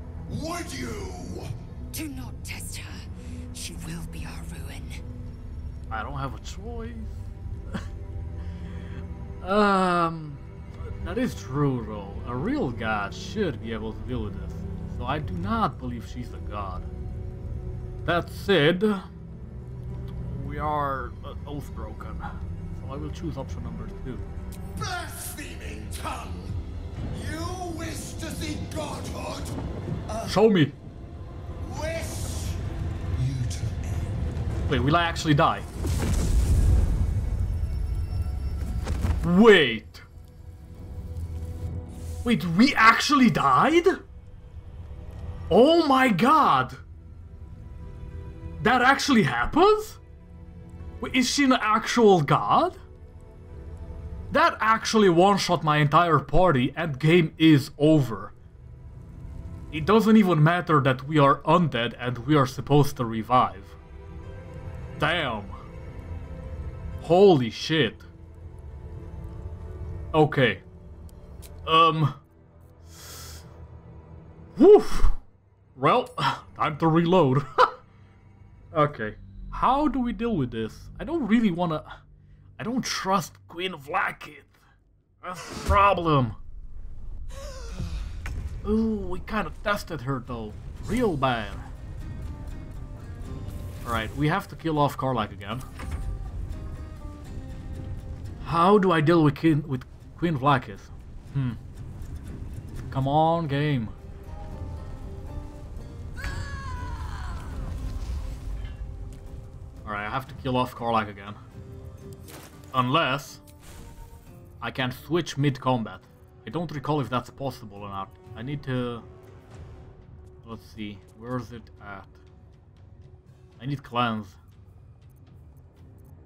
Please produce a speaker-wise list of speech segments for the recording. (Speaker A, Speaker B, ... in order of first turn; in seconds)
Speaker A: 0.3-1.5, 24.8-26.5, 27.1-29.6, 30.1-30.5, 31.6-32.6, 33.1-34.2
Speaker B: 1.9-5.0
Speaker C: 5.9-7.1, 9.4-16.9, 18.0-19.1, 20.2-24.3, 30.2-30.8, 34.7-35.6, 39.2-40.0, 42.2-44.0, 45.5-46.8, 48.6-50.0, 51.0-52.8, 54.3-58.3, 59.7-63.8, 65.0-65.5, 67.0-68.0, 70.1-70.6, 71.6-72.2, 74.6-75.2, 75.8-77.8, 78.7-82.0, 82.6-84.5, 85.2-86.4, 88.6-91.7, 93.8-95.7, 98.4-101.6, 102.9-103.9, 109.8-111.4, 112.7-113.4, 114.6-119.0, 120.4-122.2, 123.6-124.4